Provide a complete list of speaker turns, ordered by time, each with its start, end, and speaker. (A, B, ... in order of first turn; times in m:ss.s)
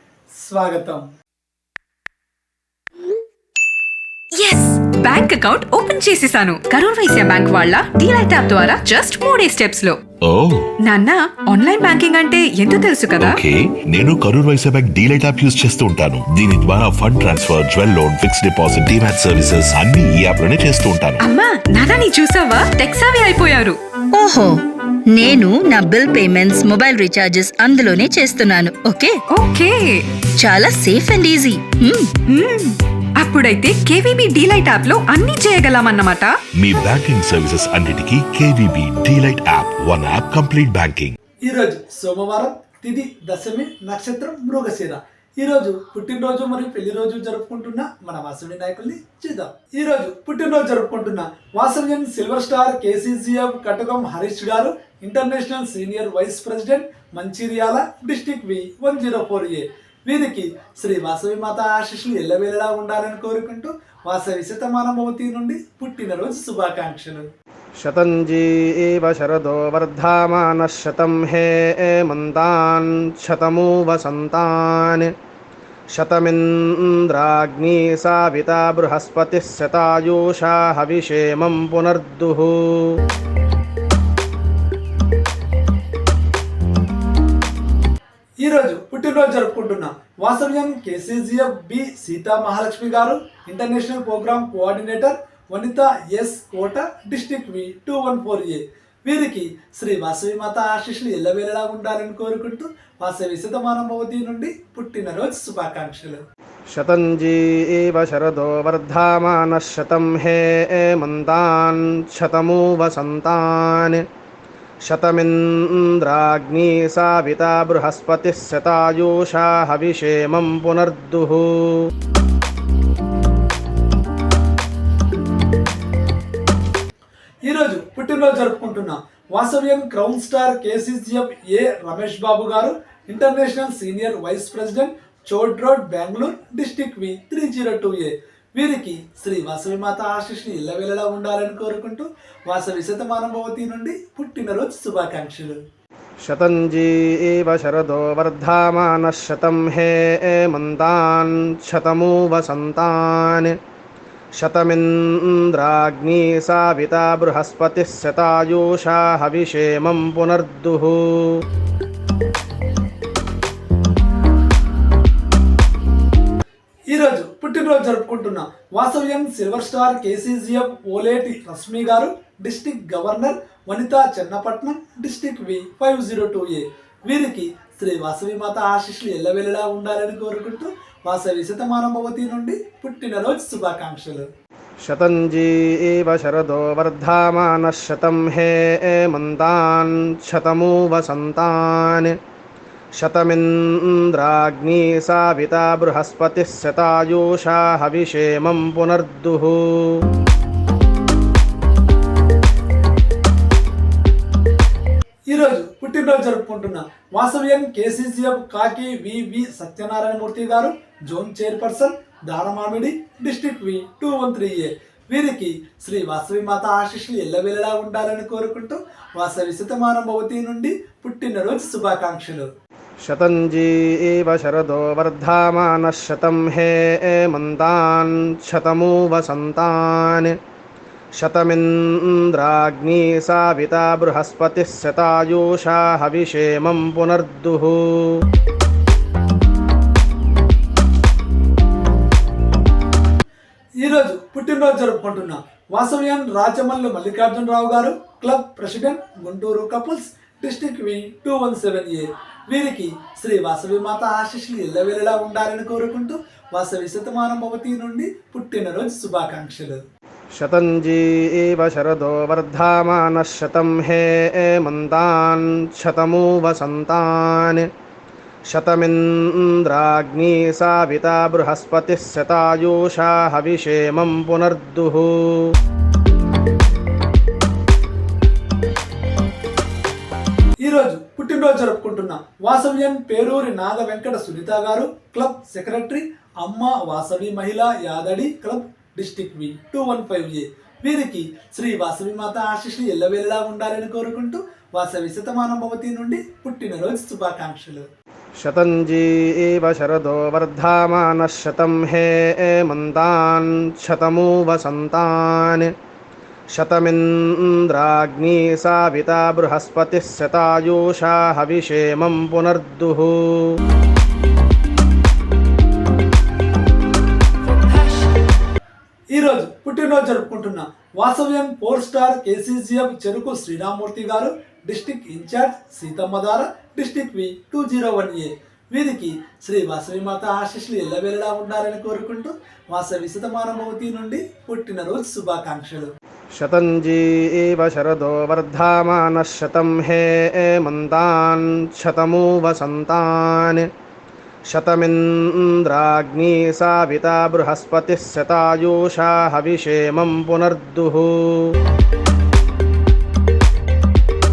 0:00.4-0:01.0 A
0:04.4-0:10.0 B
0:10.2-0:10.6 C
0:10.8-0:13.4 B
0:13.3-0:21.2 C
0:21.2-0:23.8 B
0:24.1-0:29.2 D
0:29.3-0:30.0 B
0:30.4-0:32.1 D
0:32.3-0:36.4 B
0:36.6-0:41.1 C
0:41.4-1:07.2 A
1:07.8-1:15.1 E
1:15.9-1:22.9 E
1:28.4-1:46.2 A
1:46.7-1:54.0 E
1:54.8-2:01.8 E
2:07.4-2:25.6 A
2:26.2-2:33.5 E
2:34.4-2:41.4 E
2:46.9-3:04.3 A
3:04.8-3:12.1 E
3:13.0-3:20.0 E
3:25.3-3:42.5 A
3:43.0-3:50.3 E
3:51.2-3:58.2 E
4:03.8-4:19.8 A
4:20.4-4:27.6 E
4:28.5-4:35.5 E
4:40.6-4:57.8 A
4:58.4-5:05.7 E
5:06.5-5:13.4 E
5:19.1-5:35.9 A
5:36.4-5:43.6 E
5:44.5-5:51.5 E